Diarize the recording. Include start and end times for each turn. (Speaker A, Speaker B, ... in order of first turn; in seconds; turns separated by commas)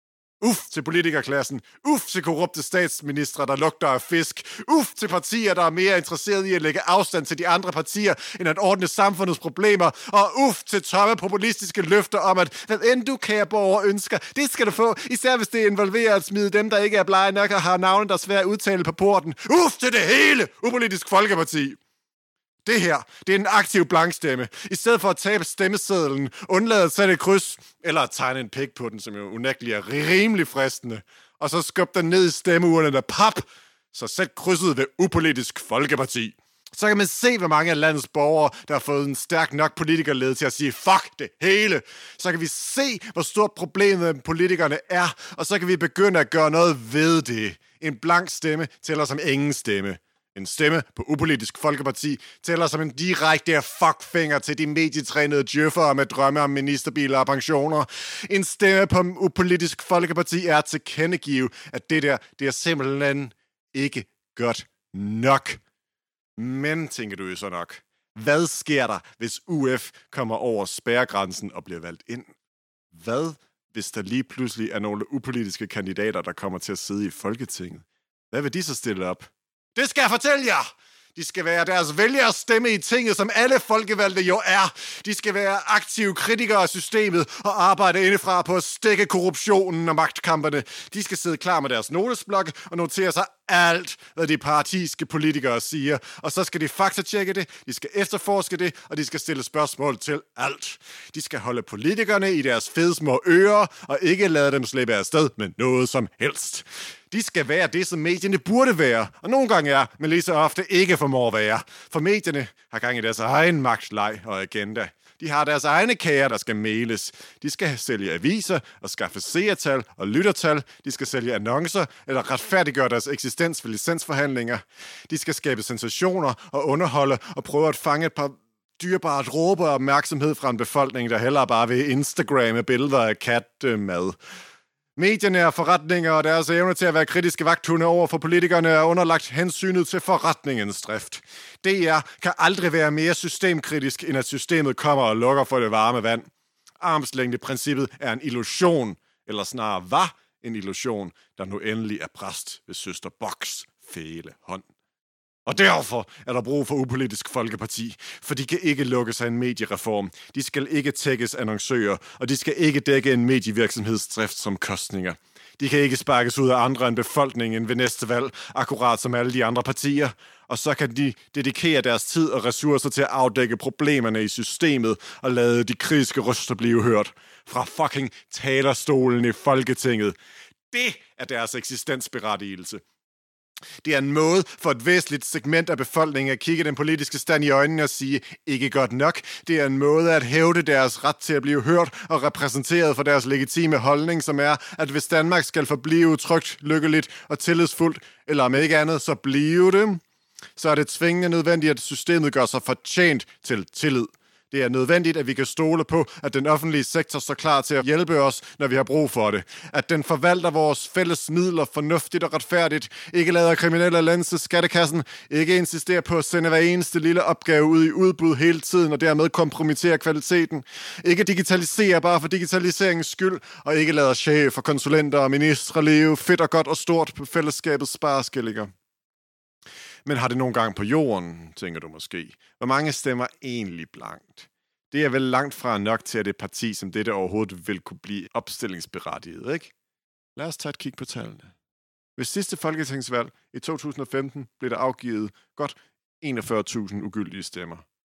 Speaker A: 0.4-21.8, Speaker A: 22.6-65.6, Speaker A: 66.4-72.3, Speaker A: 72.9-80.6, Speaker A: 81.2-134.2, Speaker A: 135.0-146.3, Speaker A: 146.8-154.7, Speaker A: 155.5-180.2, Speaker A: 180.7-182.8, Speaker A: 183.8-200.0, Speaker A: 200.6-228.7, Speaker A: 230.1-239.7, Speaker A: 240.4-241.5, Speaker A: 242.2-247.8